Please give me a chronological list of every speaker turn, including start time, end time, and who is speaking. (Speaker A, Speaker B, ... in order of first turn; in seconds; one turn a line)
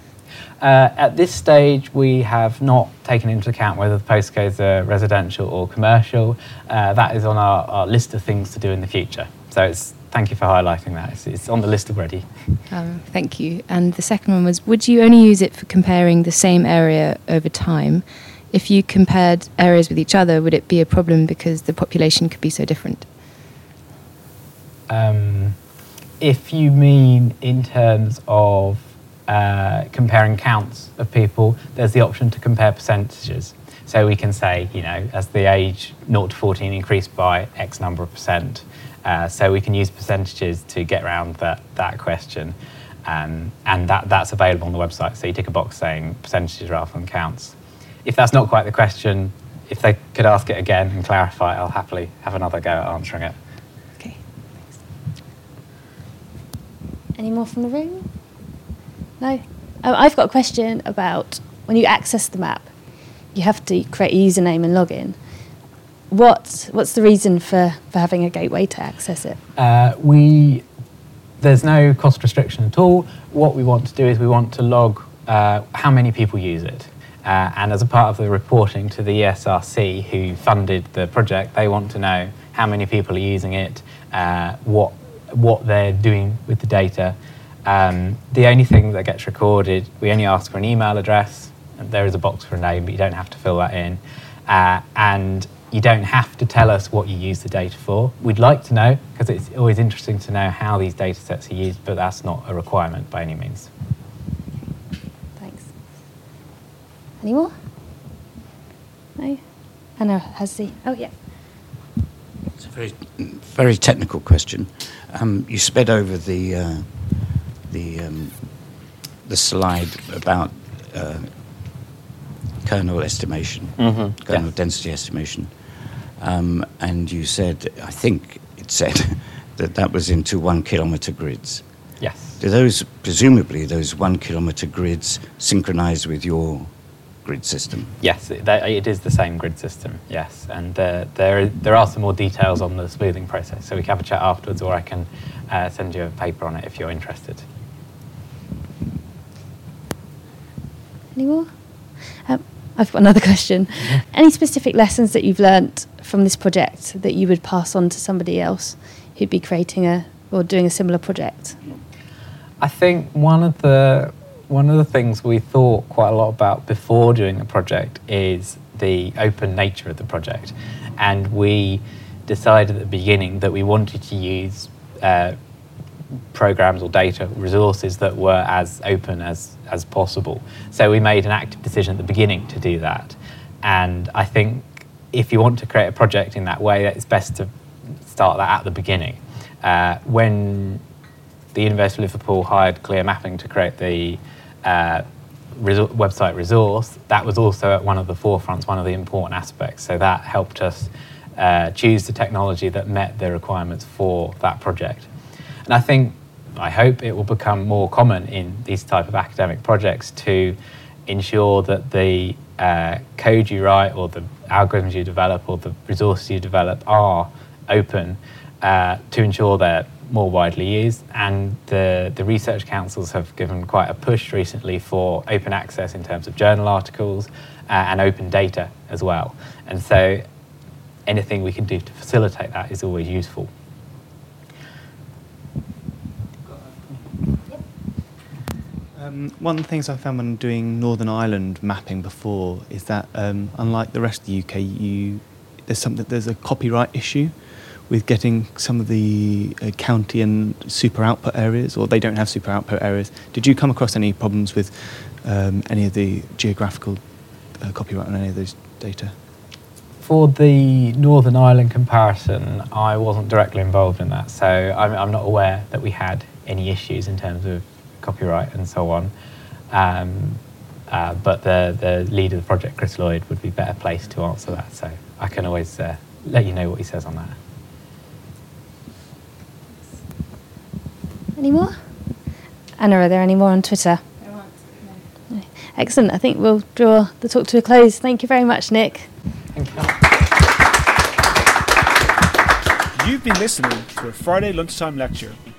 Speaker A: 0.6-12.4
Speaker B: 12.7-23.1
Speaker A: 24.9-25.6
Speaker A: 26.2-53.3
Speaker C: 57.1-58.1
Speaker C: 59.2-62.7
Speaker C: 63.3-65.2
Speaker C: 66.1-69.4
Speaker A: 69.5-70.6
Speaker A: 71.4-103.7
Speaker C: 105.4-105.7
Speaker C: 107.2-107.5
Speaker C: 109.2-109.4
Speaker C: 110.0-111.1
Speaker D: 112.6-118.7
Speaker D: 119.2-121.3
Speaker D: 122.6-125.5
Speaker A: 123.8-124.5
Speaker D: 126.2-131.6
Speaker A: 132.0-132.4
Speaker D: 132.4-136.7
Speaker D: 137.2-137.9
Speaker A: 138.0-147.4
Speaker C: 151.1-151.5
Speaker C: 152.2-161.6
Speaker A: 162.6-175.4
Speaker A: 176.3-190.8
Speaker A: 191.5-205.1
Speaker A: 205.7-230.2
Speaker A: 231.1-233.5
Speaker E: 238.9-257.0
Speaker E: 257.6-259.1
Speaker A: 260.0-269.1
Speaker A: 269.7-277.4
Speaker C: 281.4-281.9
Speaker C: 282.8-284.0
Speaker C: 285.3-289.1
Speaker A: 289.5-289.9
Speaker F: 292.9-295.4